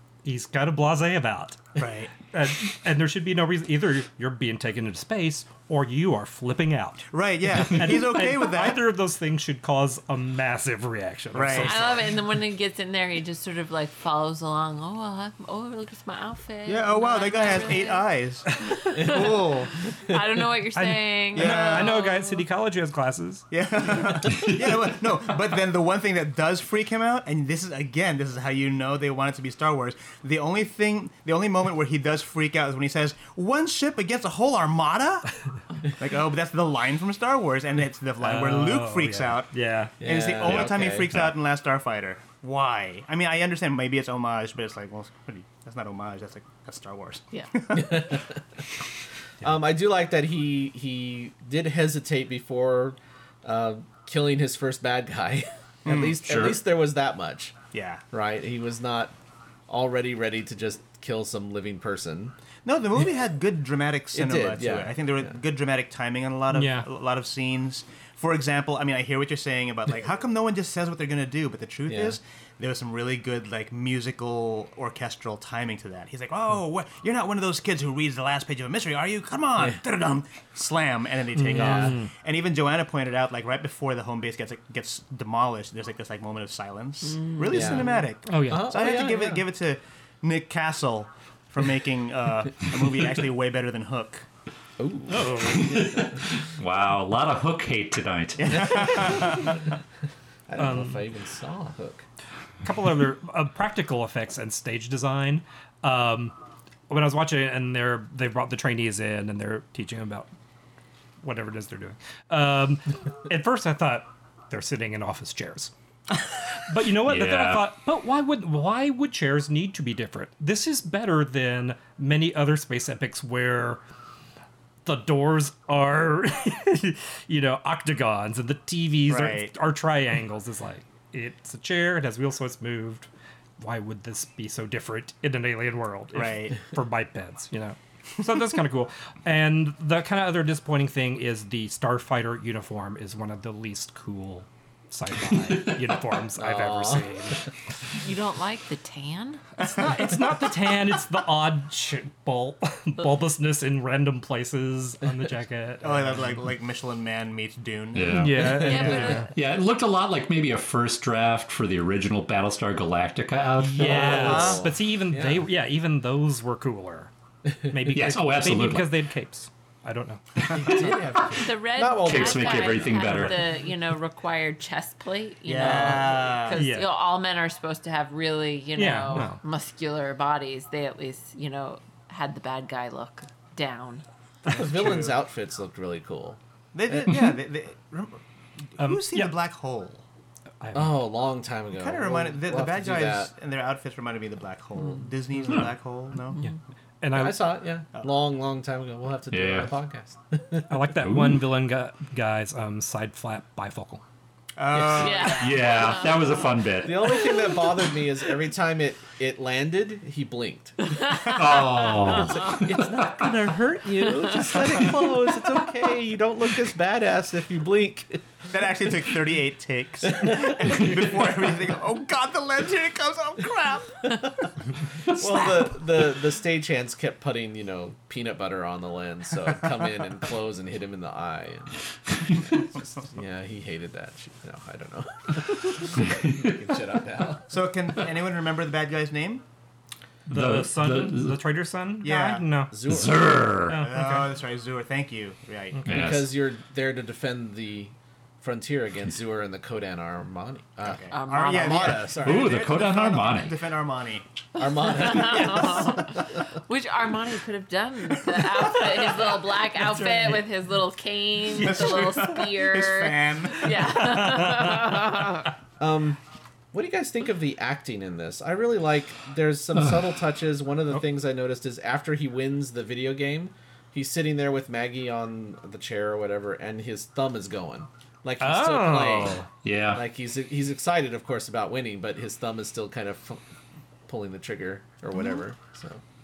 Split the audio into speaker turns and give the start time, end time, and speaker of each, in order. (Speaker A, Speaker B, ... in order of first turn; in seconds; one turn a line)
Speaker A: 0.2-1.6
Speaker B: 1.8-2.1
Speaker A: 2.1-12.1
Speaker B: 7.1-8.9
Speaker B: 11.3-12.0
Speaker C: 11.5-18.1
Speaker B: 16.6-19.7
Speaker C: 18.8-19.4
Speaker D: 18.9-19.3
Speaker C: 20.0-22.4
Speaker A: 20.7-23.5
Speaker B: 21.3-21.9
Speaker B: 23.5-35.3
Speaker B: 35.9-48.2
Speaker A: 38.2-40.0
Speaker D: 40.0-41.1
Speaker E: 40.4-41.3
Speaker D: 47.7-48.4
Speaker D: 49.4-57.5
Speaker B: 55.8-56.4
Speaker E: 56.2-56.6
Speaker B: 57.7-58.0
Speaker D: 58.1-59.1
Speaker D: 59.7-62.3
Speaker B: 62.6-94.3
Speaker D: 64.1-65.3
Speaker A: 66.5-66.9
Speaker D: 71.9-72.2
Speaker A: 81.3-82.1
Speaker D: 81.5-82.0
Speaker C: 87.0-87.9
Speaker D: 87.5-89.4
Speaker A: 88.2-88.8
Speaker D: 94.8-96.2
Speaker A: 95.1-96.0
Speaker E: 95.7-99.2
Speaker B: 98.4-99.6
Speaker D: 98.7-99.5
Speaker D: 100.5-102.0
Speaker A: 100.6-101.1
Speaker A: 102.6-106.3
Speaker A: 106.9-110.3
Speaker A: 111.2-115.7
Speaker A: 116.5-123.8
Speaker E: 117.0-117.7
Speaker A: 124.8-147.4
Speaker B: 129.1-129.5
Speaker B: 136.1-136.6
Speaker D: 146.4-147.2
Speaker C: 148.0-149.4
Speaker A: 149.6-156.2
Speaker B: 149.7-150.1
Speaker B: 155.8-159.2
Speaker E: 157.9-164.5
Speaker A: 158.1-159.3
Speaker C: 158.5-159.3
Speaker A: 163.6-167.1
Speaker D: 163.7-165.5
Speaker B: 164.1-164.7
Speaker D: 167.4-167.9
Speaker A: 167.7-171.0
Speaker E: 167.9-168.9
Speaker D: 170.4-173.0
Speaker C: 171.2-184.0
Speaker E: 172.0-173.5
Speaker A: 172.9-173.4
Speaker B: 175.4-176.6
Speaker D: 175.6-176.1
Speaker A: 176.5-176.9
Speaker A: 178.8-179.4
Speaker A: 184.4-185.2
Speaker D: 184.5-187.2
Speaker B: 186.7-190.0
Speaker A: 188.8-189.4
Speaker A: 190.6-191.1
Speaker D: 190.7-193.3
Speaker B: 191.7-196.4
Speaker A: 196.4-197.5
Speaker D: 197.1-200.8
Speaker E: 199.3-199.8
Speaker A: 200.7-204.0
Speaker E: 201.0-201.4
Speaker B: 204.6-205.7
Speaker D: 204.7-205.3
Speaker C: 204.9-206.4
Speaker E: 205.3-207.5
Speaker D: 206.8-211.0
Speaker C: 210.9-212.6
Speaker B: 211.1-211.6
Speaker E: 211.3-213.3
Speaker D: 212.1-218.4
Speaker B: 218.5-224.1
Speaker D: 220.1-221.1
Speaker D: 224.1-224.5
Speaker D: 225.1-237.4
Speaker E: 236.0-236.5
Speaker B: 237.5-239.4
Speaker E: 240.3-241.4
Speaker A: 240.3-242.8
Speaker B: 242.0-242.4
Speaker D: 242.7-243.5
Speaker E: 242.8-243.8
Speaker A: 243.7-244.2
Speaker B: 243.7-245.8
Speaker E: 245.8-246.3
Speaker D: 245.9-252.9
Speaker B: 250.8-254.2
Speaker C: 251.1-252.1
Speaker E: 252.2-253.6
Speaker C: 254.5-265.5
Speaker D: 254.6-256.2
Speaker B: 255.0-256.0
Speaker B: 258.2-259.4
Speaker A: 260.0-260.4
Speaker B: 261.5-264.1
Speaker A: 264.1-264.9
Speaker D: 265.8-266.2
Speaker D: 266.7-283.4
Speaker E: 269.7-270.2
Speaker A: 278.4-279.5
Speaker E: 279.6-280.0
Speaker D: 284.1-286.0